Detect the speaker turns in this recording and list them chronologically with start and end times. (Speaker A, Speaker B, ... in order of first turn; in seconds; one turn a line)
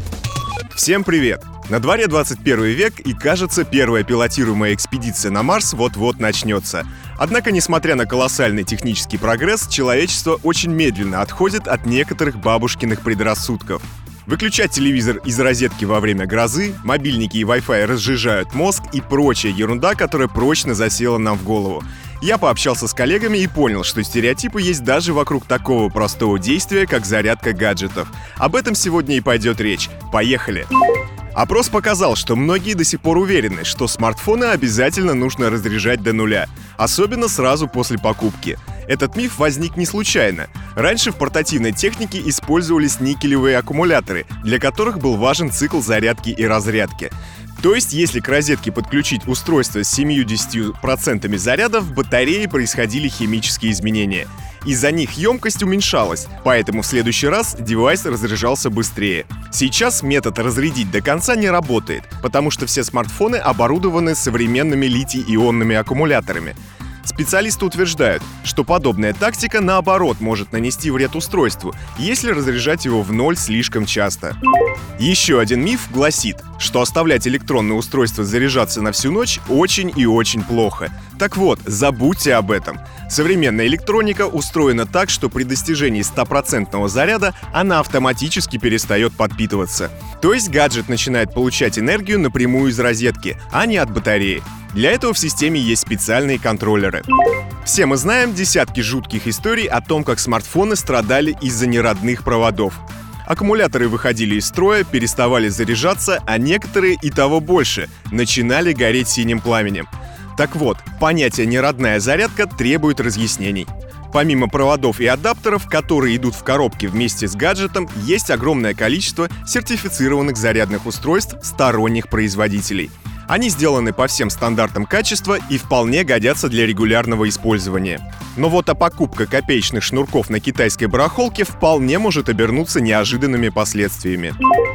Speaker A: 0.8-30.7
Speaker A: 31.3-74.4
Speaker A: 75.0-97.1
Speaker A: 97.6-134.4